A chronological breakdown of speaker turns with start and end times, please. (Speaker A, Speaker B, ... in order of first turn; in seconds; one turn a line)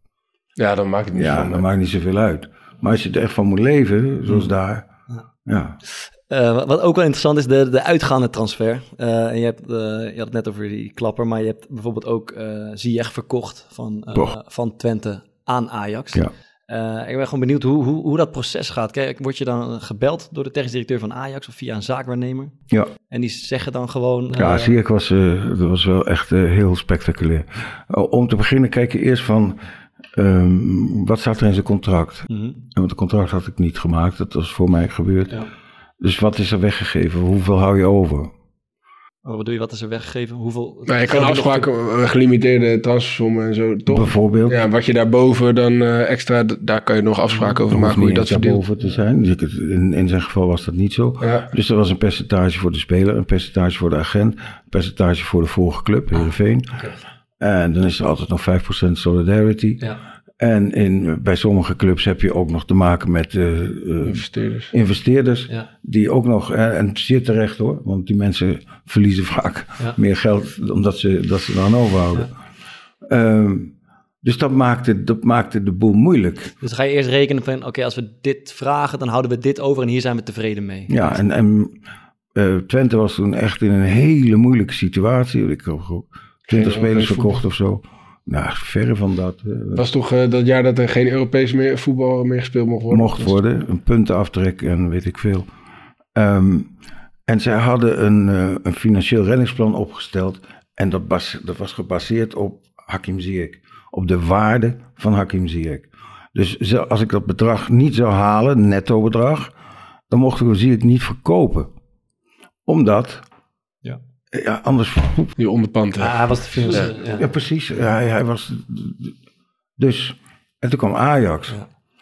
Speaker A: 0.6-1.7
Speaker B: 1.1-4.9
Speaker B: 5.5-5.8
Speaker C: 5.9-22.5
Speaker C: 23.1-24.7
Speaker B: 24.4-29.6
Speaker B: 30.1-35.4
Speaker C: 32.3-32.6
Speaker B: 36.0-38.3
Speaker C: 39.2-41.7
Speaker A: 40.9-48.6
Speaker B: 43.9-44.7
Speaker B: 47.7-56.8
Speaker A: 51.2-51.5
Speaker B: 57.4-59.8
Speaker B: 60.4-72.3
Speaker A: 64.0-64.7
Speaker B: 73.0-76.5
Speaker C: 76.6-81.2
Speaker B: 80.9-81.8
Speaker B: 82.3-89.8
Speaker A: 86.5-87.4
Speaker A: 89.7-93.4
Speaker B: 92.9-95.5
Speaker B: 96.2-96.7
Speaker B: 97.3-109.5
Speaker B: 110.1-111.7
Speaker B: 112.7-113.2
Speaker B: 114.3-115.3
Speaker A: 115.4-116.9
Speaker C: 116.0-117.2
Speaker B: 116.9-119.2
Speaker B: 119.8-121.6